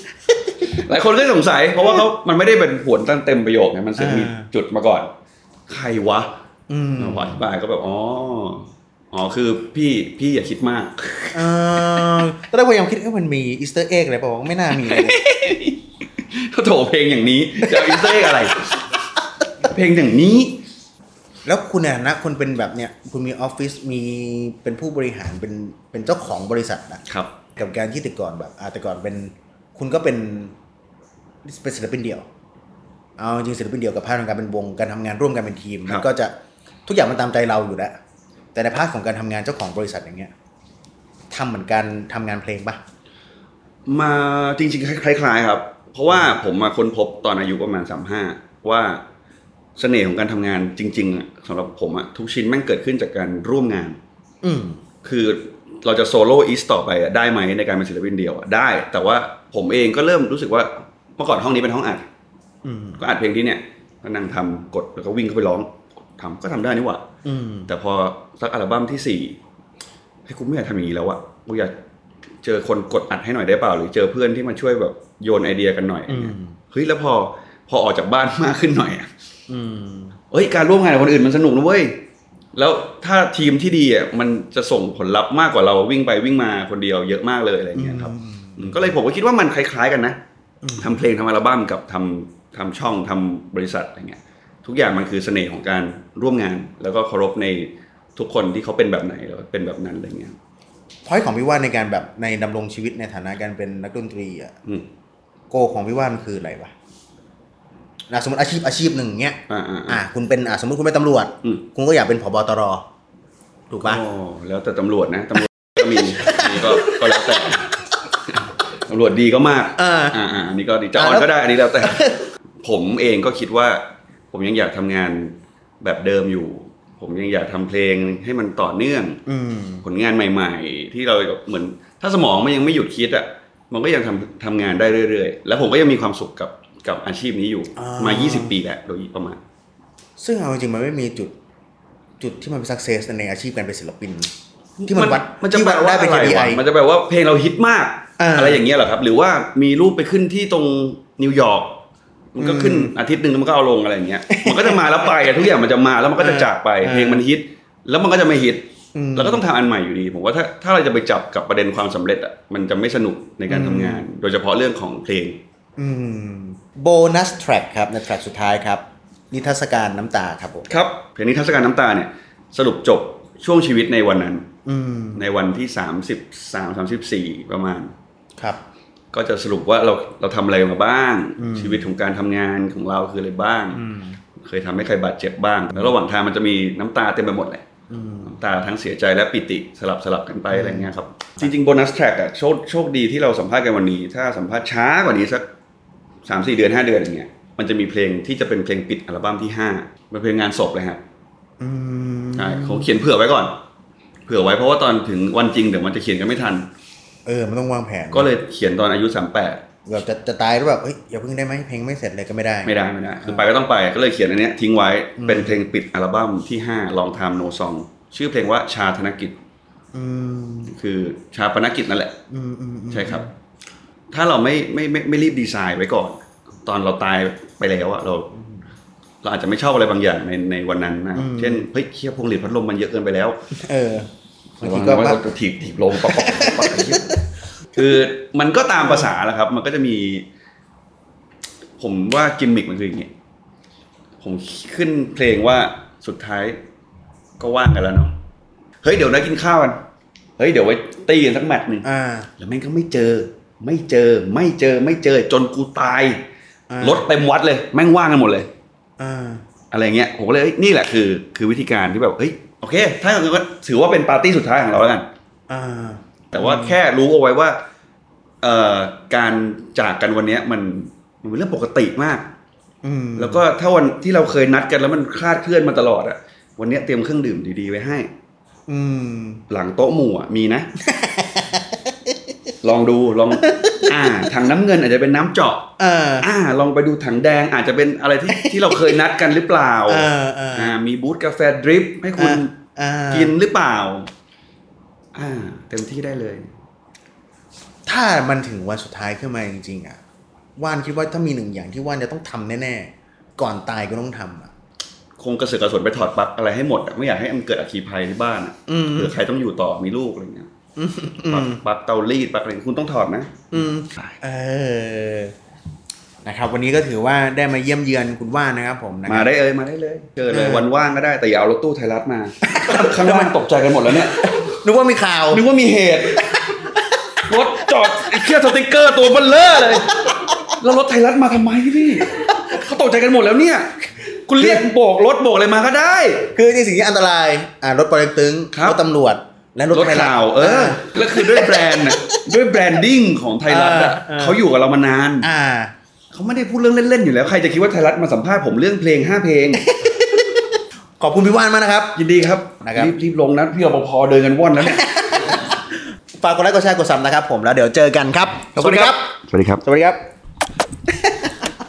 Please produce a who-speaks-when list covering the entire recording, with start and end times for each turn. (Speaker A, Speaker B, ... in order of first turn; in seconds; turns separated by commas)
Speaker A: 0.6-5.1, Speaker B: 4.0-4.5, Speaker A: 5.7-6.3, Speaker B: 6.7-7.4, Speaker A: 7.0-12.2, Speaker B: 11.3-15.2, Speaker A: 14.7-18.9, Speaker B: 17.6-18.5, Speaker A: 19.6-20.6, Speaker B: 21.4-27.0, Speaker A: 27.1-27.4, Speaker B: 27.6-30.6, Speaker B: 31.4-32.3, Speaker B: 33.2-36.4, Speaker B: 36.9-38.0, Speaker B: 38.5-40.3, Speaker B: 41.3-42.8, Speaker A: 43.9-49.0, Speaker A: 49.8-54.0, Speaker B: 54.4-54.8, Speaker A: 55.0-62.1, Speaker B: 62.6-63.0, Speaker A: 63.0-67.0, Speaker B: 67.2-67.7, Speaker A: 67.7-69.4, Speaker A: 70.3-71.7, Speaker A: 72.4-79.1, Speaker B: 76.1-76.6, Speaker B: 79.5-80.2, Speaker A: 80.3-82.0, Speaker A: 82.5-90.2, Speaker B: 87.8-88.9, Speaker B: 90.6-91.0, Speaker A: 90.8-100.4, Speaker B: 101.0-104.6, Speaker B: 105.5-106.7, Speaker B: 108.1-112.9, Speaker A: 109.5-110.0, Speaker B: 113.7-114.0, Speaker A: 113.8-129.2, Speaker B: 115.8-117.6, Speaker B: 119.8-120.2, Speaker B: 121.0-122.2, Speaker B: 129.3-129.8, Speaker A: 129.8-139.4, Speaker B: 137.8-138.6, Speaker B: 140.2-141.3, Speaker B: 142.2-144.3, Speaker A: 144.8-165.4, Speaker B: 144.9-146.6, Speaker B: 148.2-148.6, Speaker B: 152.4-152.9, Speaker B: 154.3-155.3, Speaker B: 156.2-157.2, Speaker B: 158.9-159.4, Speaker B: 163.5-164.0, Speaker B: 165.8-170.7, Speaker A: 170.7-174.5, Speaker B: 174.7-175.2, Speaker A: 175.2-177.9, Speaker A: 179.1-183.8, Speaker B: 181.4-181.9, Speaker B: 183.7-184.2, Speaker A: 184.4-187.7, Speaker B: 187.9-188.3, Speaker A: 188.2-195.5, Speaker B: 190.5-191.5, Speaker A: 196.2-201.0, Speaker B: 201.6-202.9, Speaker A: 202.3-203.6, Speaker A: 204.3-206.7, Speaker B: 207.3-208.3, Speaker A: 208.1-209.7, Speaker B: 209.9-212.7, Speaker A: 212.7-219.4, Speaker B: 215.2-215.6, Speaker B: 219.9-220.7, Speaker A: 220.7-222.2, Speaker B: 222.3-223.3, Speaker A: 222.9-223.3, Speaker A: 224.1-228.3, Speaker B: 228.3-228.6, Speaker A: 229.2-233.4, Speaker B: 231.2-231.7, Speaker B: 233.5-234.1, Speaker B: 234.6-235.2, Speaker A: 234.6-237.2, Speaker B: 235.9-237.1, Speaker A: 237.7-240.3, Speaker B: 238.8-239.1, Speaker A: 241.8-243.1, Speaker A: 244.2-246.6, Speaker A: 247.4-248.2, Speaker A: 248.8-249.8, Speaker A: 250.4-251.9, Speaker B: 251.8-252.3, Speaker A: 252.4-256.2, Speaker B: 256.7-257.1, Speaker A: 256.8-258.5, Speaker B: 259.0-259.4, Speaker A: 259.7-265.1, Speaker B: 265.5-266.8, Speaker A: 266.3-267.6, Speaker A: 268.4-272.3, Speaker B: 272.8-273.4, Speaker A: 273.2-278.1, Speaker B: 278.7-279.4, Speaker A: 279.5-280.7, Speaker B: 280.8-282.2, Speaker A: 282.6-292.6, Speaker B: 283.4-284.3, Speaker B: 285.8-286.3, Speaker B: 288.3-289.0, Speaker B: 289.9-290.8, Speaker B: 292.2-293.3, Speaker A: 293.1-294.1, Speaker A: 295.1-296.5, Speaker B: 297.9-300.0, Speaker B: 300.6-304.5, Speaker A: 305.2-310.5, Speaker B: 308.7-309.1, Speaker B: 310.8-311.6, Speaker A: 311.3-314.2, Speaker B: 313.5-315.3, Speaker B: 316.2-319.3, Speaker A: 319.1-324.4, Speaker B: 320.3-320.7, Speaker B: 322.5-323.3, Speaker B: 323.9-325.4, Speaker A: 325.3-326.4, Speaker B: 326.2-327.2, Speaker A: 327.2-336.3, Speaker B: 329.6-330.4, Speaker B: 334.4-334.7, Speaker B: 336.3-342.2, Speaker A: 338.5-338.8, Speaker A: 339.7-345.3, Speaker B: 343.5-344.4, Speaker B: 345.2-345.7, Speaker A: 346.1-349.7, Speaker B: 349.6-352.0, Speaker A: 351.9-354.9, Speaker B: 352.6-352.9, Speaker B: 354.6-355.6, Speaker B: 356.2-359.1, Speaker A: 358.6-359.6, Speaker B: 359.6-360.0, Speaker B: 360.9-361.5